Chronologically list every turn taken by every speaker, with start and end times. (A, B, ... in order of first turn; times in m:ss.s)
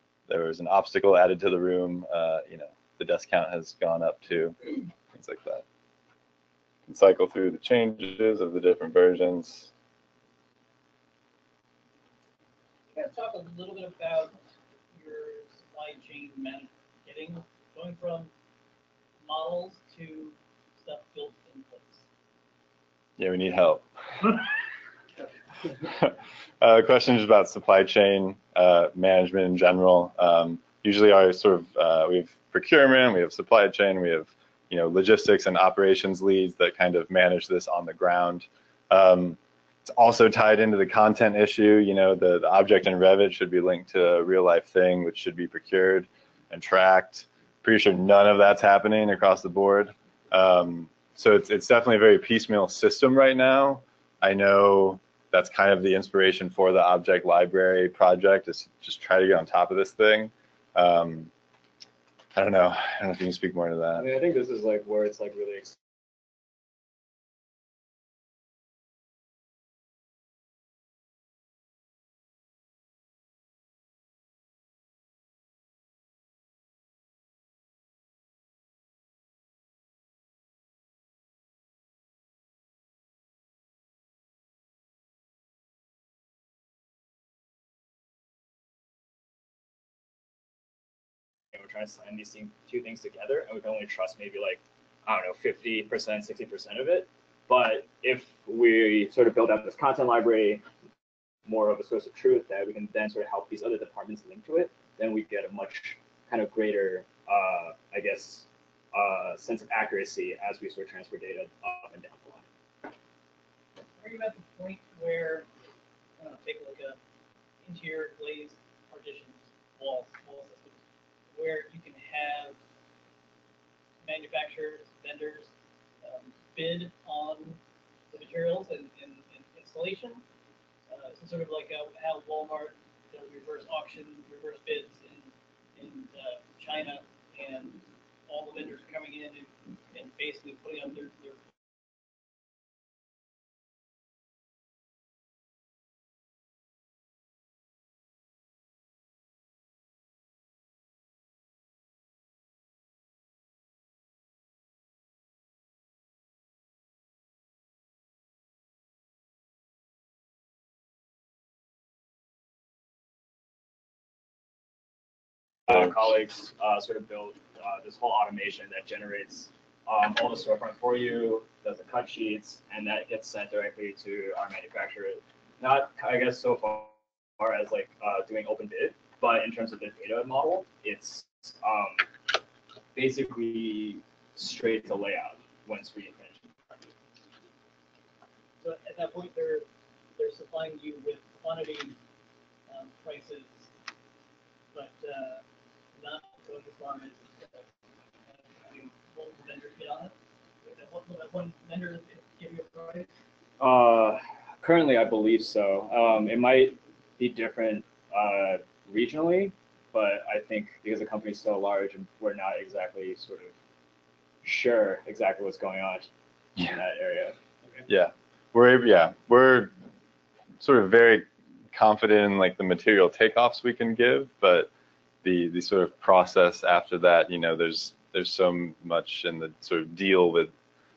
0:00.3-0:05.6 A
0:06.9-0:09.7 A
0:12.9-0:14.4 B
0:14.9-0:18.3 B
0:19.2-0:22.0 B
0:23.2-0:24.4 A
0:25.7-1:01.3 A
1:02.3-1:04.1 A
1:04.0-1:05.8 C
1:31.5-1:40.6 C
1:41.5-1:52.5 C
1:54.0-1:55.5 B
1:56.2-1:57.0 B
1:57.6-2:00.8 B
2:01.3-2:02.6 B
2:04.0-2:05.5 B
2:06.0-2:07.6 B
2:08.1-2:10.2 B
2:10.9-2:21.4 B
2:45.7-3:02.1 C
3:02.9-3:06.9 C
3:08.6-3:12.0 B
3:12.7-3:13.7 B
3:14.7-3:15.4 B
3:16.0-3:17.7 B
3:18.3-3:23.1 B
3:23.6-3:33.5 C
3:34.4-3:37.4 C
3:37.9-3:39.7 A
3:40.6-3:44.7 A
3:45.2-3:50.5 A